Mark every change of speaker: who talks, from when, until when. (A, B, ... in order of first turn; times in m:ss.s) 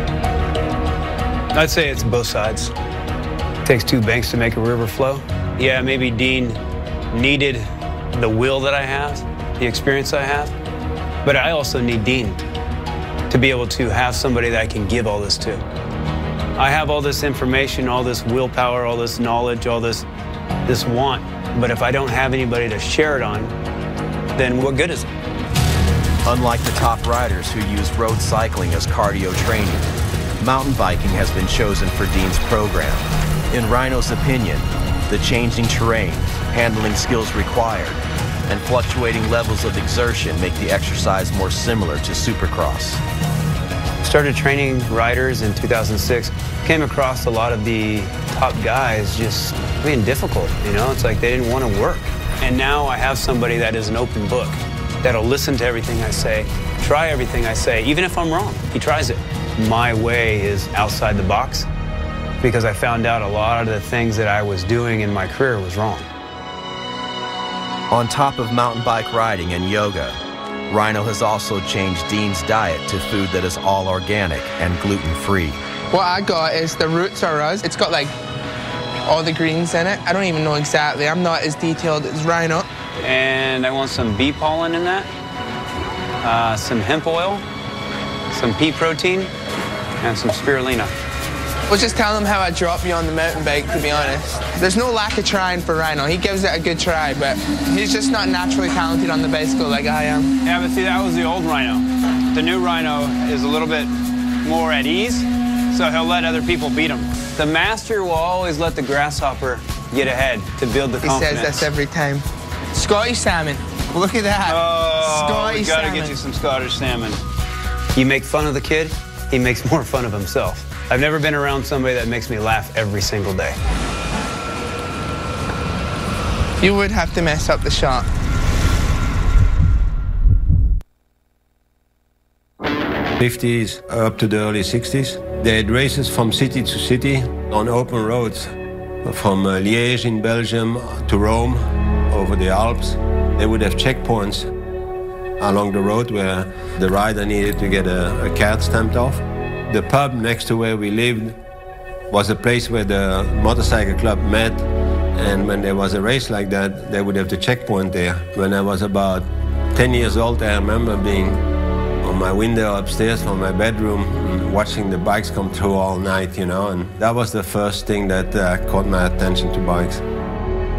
0:01.5-0:02.7 A
0:03.6-0:06.6 A
0:07.1-0:10.5 A
0:11.2-0:12.4 A
0:13.3-0:15.6 A
0:16.6-0:20.1 A
0:20.6-0:23.5 A
0:24.3-0:25.1 A
0:26.2-0:29.9 B
0:30.4-0:43.0 B
0:44.0-1:01.7 A
1:02.4-1:06.1 A
1:07.9-1:10.2 B
1:10.7-1:15.6 B
1:15.9-1:18.1 C
1:19.1-1:22.6 C
1:23.0-1:25.1 A
1:26.2-1:27.4 A
1:28.3-1:29.3 A
1:30.0-1:30.9 A
1:31.7-1:40.3 C
1:40.4-1:43.9 A
1:44.4-1:51.7 A
1:51.0-1:56.1 C
1:54.4-1:57.2 A
1:57.9-2:03.6 A
2:06.6-2:08.1 C
2:13.2-2:24.5 D
2:25.4-2:31.4 D
2:32.1-2:41.4 D
2:42.0-2:50.0 D